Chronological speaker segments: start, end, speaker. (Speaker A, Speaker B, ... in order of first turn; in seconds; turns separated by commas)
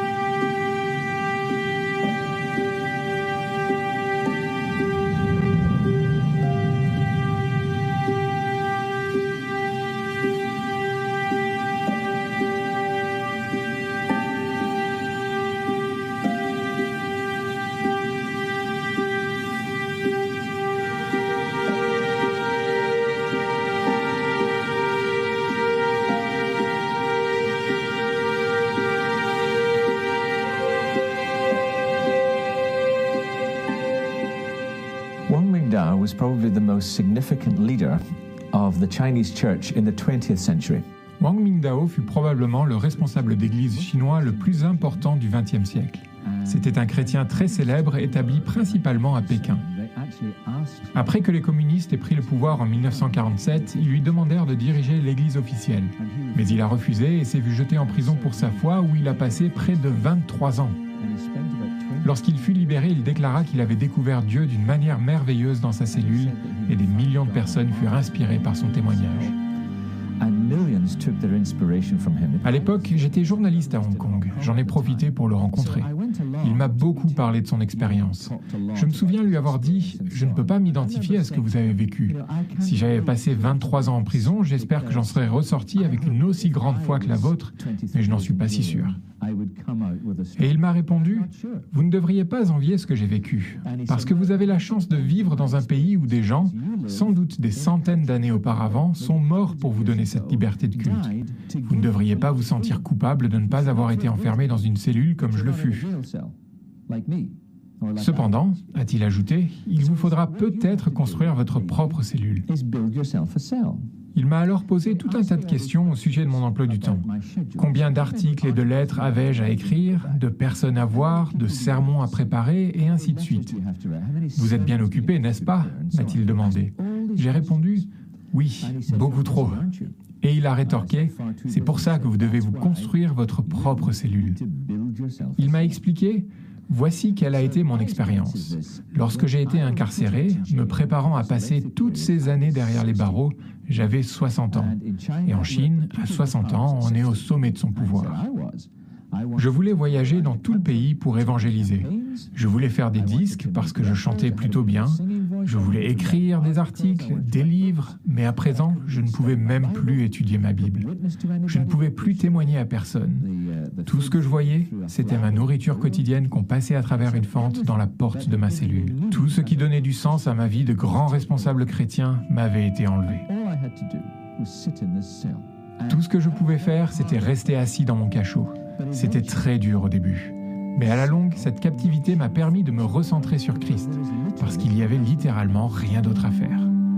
Speaker A: 35.3-40.9, Speaker B: 41.2-49.6, Speaker A: 42.1-45.1, Speaker A: 45.8-55.1, Speaker B: 50.9-60.8, Speaker A: 56.0-60.4, Speaker A: 60.9-64.0, Speaker B: 62.0-69.3, Speaker A: 65.9-69.3, Speaker A: 70.2-91.7, Speaker B: 72.4-89.0, Speaker B: 90.4-101.1, Speaker A: 93.6-106.3, Speaker B: 101.7-105.9, Speaker A: 106.9-109.0, Speaker B: 108.0-112.5, Speaker A: 109.7-113.9, Speaker B: 114.1-123.6, Speaker A: 114.8-127.9, Speaker B: 124.3-129.7, Speaker A: 128.6-130.0, Speaker B: 130.2-134.4, Speaker A: 130.6-135.8, Speaker B: 135.4-144.7, Speaker A: 137.2-143.3, Speaker A: 144.5-171.9, Speaker B: 145.2-148.2, Speaker B: 149.3-160.9, Speaker B: 161.4-163.2, Speaker B: 163.9-173.3, Speaker A: 173.1-177.6, Speaker B: 175.9-186.7, Speaker A: 178.7-179.5, Speaker A: 180.8-186.3